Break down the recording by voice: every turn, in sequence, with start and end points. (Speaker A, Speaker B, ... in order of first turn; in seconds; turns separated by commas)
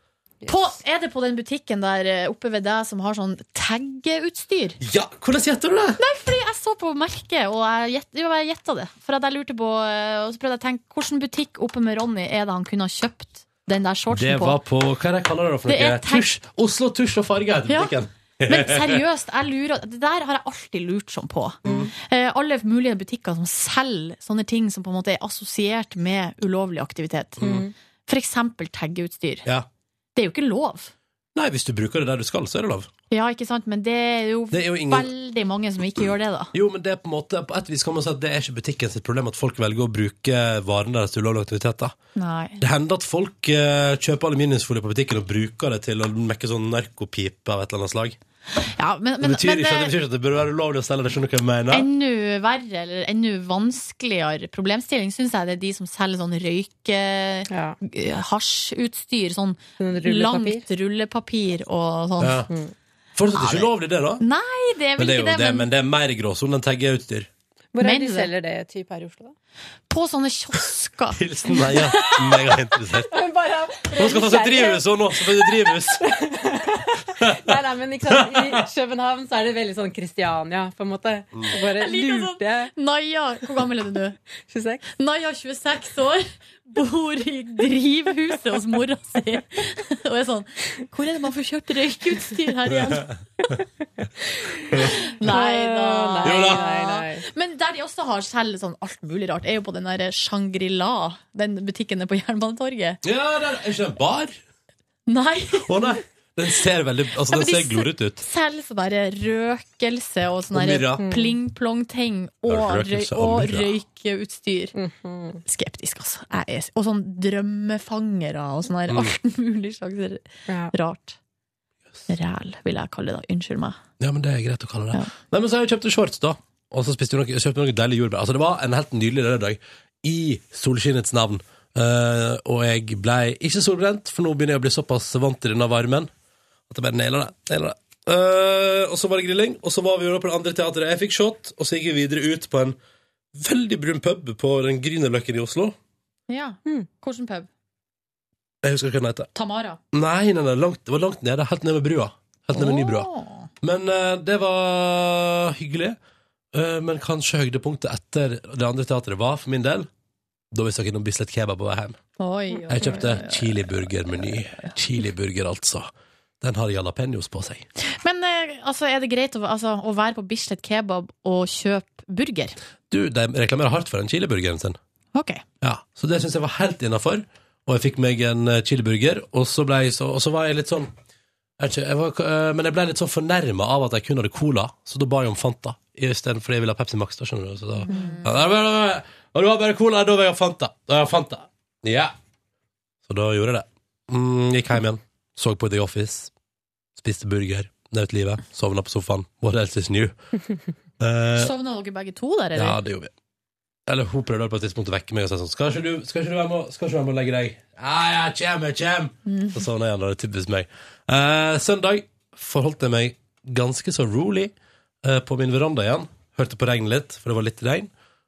Speaker A: 0.5-4.8, Speaker B: 4.8-6.0, Speaker A: 6.0-14.6, Speaker B: 14.1-19.0, Speaker A: 15.7-16.3, Speaker A: 17.7-17.9, Speaker A: 18.4-27.5, Speaker B: 27.4-27.7, Speaker C: 27.4-27.7, Speaker A: 28.1-29.4, Speaker A: 30.1-30.9, Speaker B: 31.3-32.9, Speaker A: 33.1-36.5, Speaker B: 34.5-35.1, Speaker B: 36.5-41.9, Speaker A: 42.1-42.6, Speaker B: 42.6-48.2, Speaker A: 48.6-49.9, Speaker B: 49.2-51.9, Speaker A: 51.7-62.5, Speaker C: 57.5-57.8, Speaker C: 59.8-60.7, Speaker B: 62.2-62.5, Speaker C: 62.5-62.7, Speaker B: 63.1-64.2, Speaker A: 63.3-65.7, Speaker B: 65.0-67.3, Speaker C: 67.7-69.3, Speaker A: 67.8-68.3, Speaker A: 69.9-71.8, Speaker B: 71.1-73.2, Speaker C: 71.7-82.7, Speaker B: 73.9-76.1, Speaker B: 77.2-77.5, Speaker B: 78.0-78.6, Speaker A: 81.5-84.2, Speaker C: 84.5-84.8, Speaker A: 84.9-93.1, Speaker B: 92.7-93.2, Speaker C: 94.6-97.3, Speaker A: 94.7-103.0, Speaker B: 96.2-96.6, Speaker B: 103.0-104.4, Speaker A: 105.1-105.9, Speaker B: 105.7-108.2, Speaker A: 107.3-114.7, Speaker B: 110.5-111.1, Speaker C: 111.0-111.4, Speaker B: 112.5-113.7, Speaker C: 114.7-115.4, Speaker A: 115.4-121.2, Speaker B: 118.9-119.1, Speaker C: 120.5-120.7, Speaker A: 122.1-123.8, Speaker B: 124.0-136.1, Speaker B: 136.7-142.8, Speaker B: 143.3-145.8, Speaker A: 146.3-147.5, Speaker B: 148.6-149.3, Speaker A: 149.3-149.8, Speaker B: 149.9-153.1, Speaker A: 152.5-153.5, Speaker B: 153.6-156.0, Speaker B: 156.5-159.9, Speaker B: 160.5-162.0, Speaker A: 162.2-163.7, Speaker B: 162.7-165.9, Speaker B: 166.4-167.6, Speaker A: 167.8-172.6, Speaker B: 172.9-174.8, Speaker A: 175.1-175.4, Speaker B: 175.6-180.9, Speaker B: 181.6-192.1, Speaker A: 187.8-188.3, Speaker B: 193.1-196.3, Speaker B: 196.9-200.1, Speaker B: 201.0-201.5, Speaker A: 201.3-202.8, Speaker B: 202.5-203.1, Speaker B: 203.9-217.9, Speaker A: 209.2-209.6